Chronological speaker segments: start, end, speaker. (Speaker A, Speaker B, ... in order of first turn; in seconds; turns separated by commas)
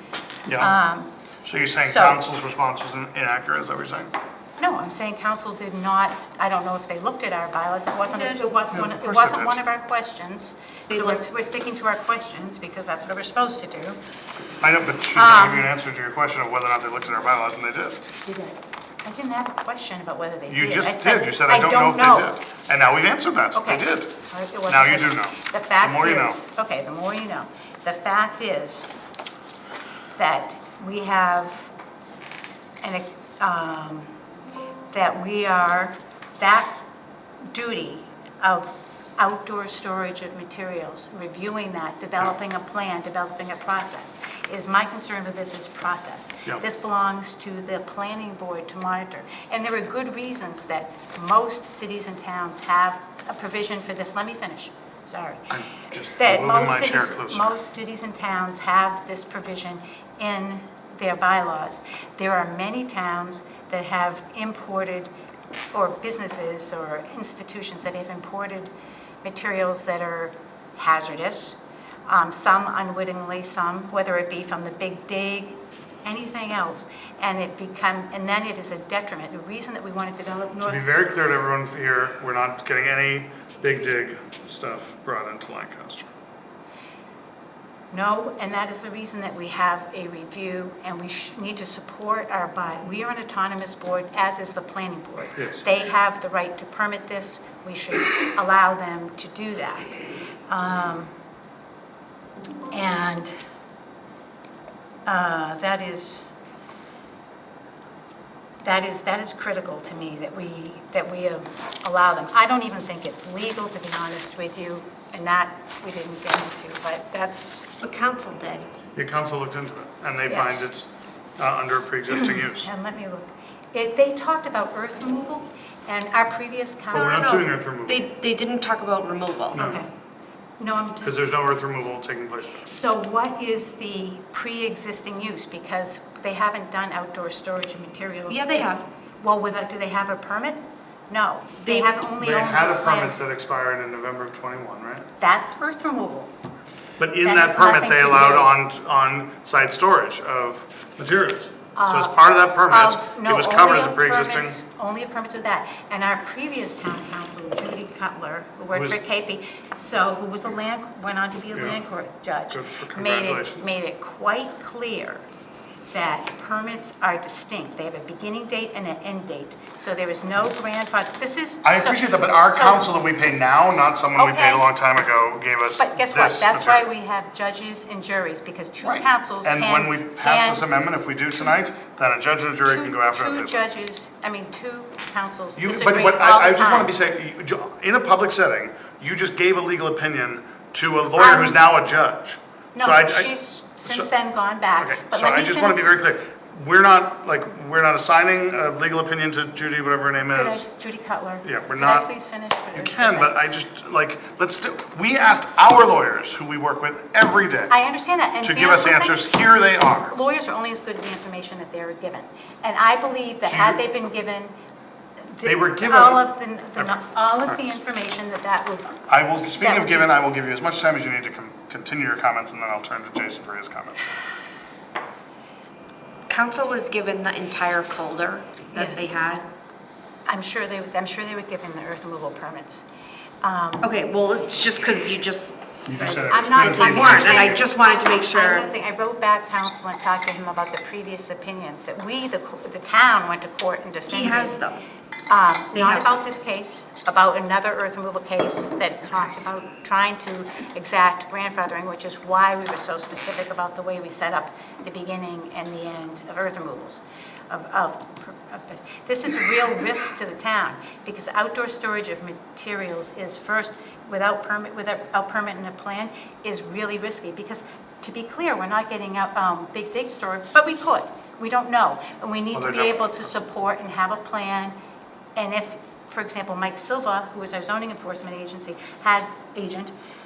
Speaker A: 0.5-0.8, Speaker B: 0.6-1.1, Speaker A: 1.4-4.1, Speaker B: 1.8-2.2, Speaker B: 4.6-14.0, Speaker C: 8.0-8.4, Speaker A: 8.7-9.6, Speaker C: 10.9-11.2, Speaker A: 14.6-18.1, Speaker B: 15.1-15.7, Speaker C: 18.3-18.5, Speaker B: 19.0-22.4, Speaker A: 20.5-24.1, Speaker B: 23.5-28.9, Speaker A: 24.7-26.4, Speaker B: 30.1-31.7, Speaker B: 32.8-34.1, Speaker B: 34.9-36.8, Speaker B: 37.5-55.5, Speaker A: 55.5-57.5, Speaker B: 56.1-65.1, Speaker B: 65.7-68.7, Speaker B: 69.2-80.8, Speaker A: 80.6-86.1, Speaker B: 87.9-101.1, Speaker A: 95.3-95.6, Speaker B: 102.7-103.3, Speaker B: 105.0-106.2, Speaker B: 108.6-117.7, Speaker C: 117.8-118.7, Speaker A: 118.9-122.7, Speaker B: 120.3-120.7, Speaker B: 122.2-127.4, Speaker A: 126.9-128.1, Speaker C: 126.9-129.6, Speaker A: 129.5-129.8, Speaker B: 129.5-129.9, Speaker B: 130.6-131.1, Speaker A: 131.0-132.7, Speaker B: 132.7-143.2, Speaker C: 138.3-138.8, Speaker C: 141.6-141.9, Speaker A: 142.2-145.1, Speaker B: 145.2-146.3, Speaker A: 147.0-154.6, Speaker B: 147.2-148.5, Speaker B: 151.7-165.2, Speaker A: 158.7-159.0, Speaker A: 161.5-161.8, Speaker A: 162.5-163.7, Speaker B: 165.9-172.8, Speaker A: 171.6-176.8, Speaker B: 174.2-174.6, Speaker B: 175.8-180.6, Speaker A: 178.8-183.6, Speaker B: 182.6-186.9, Speaker A: 185.6-194.1, Speaker B: 191.1-191.6, Speaker B: 192.7-195.8, Speaker A: 194.8-200.6, Speaker B: 200.3-203.3, Speaker A: 201.4-202.1, Speaker A: 202.7-207.7, Speaker B: 207.7-209.2, Speaker A: 208.4-210.1, Speaker B: 210.1-214.5, Speaker A: 213.4-213.8, Speaker B: 215.3-219.0, Speaker A: 215.4-216.2, Speaker A: 219.1-224.2, Speaker B: 219.6-220.1, Speaker C: 226.3-229.4, Speaker B: 228.7-229.3, Speaker B: 230.2-232.8, Speaker B: 233.4-233.9, Speaker C: 233.8-238.7, Speaker A: 235.8-237.6, Speaker B: 236.2-244.6, Speaker C: 244.1-244.8, Speaker B: 245.3-274.7, Speaker C: 245.7-246.2, Speaker A: 272.5-273.3, Speaker B: 275.3-279.9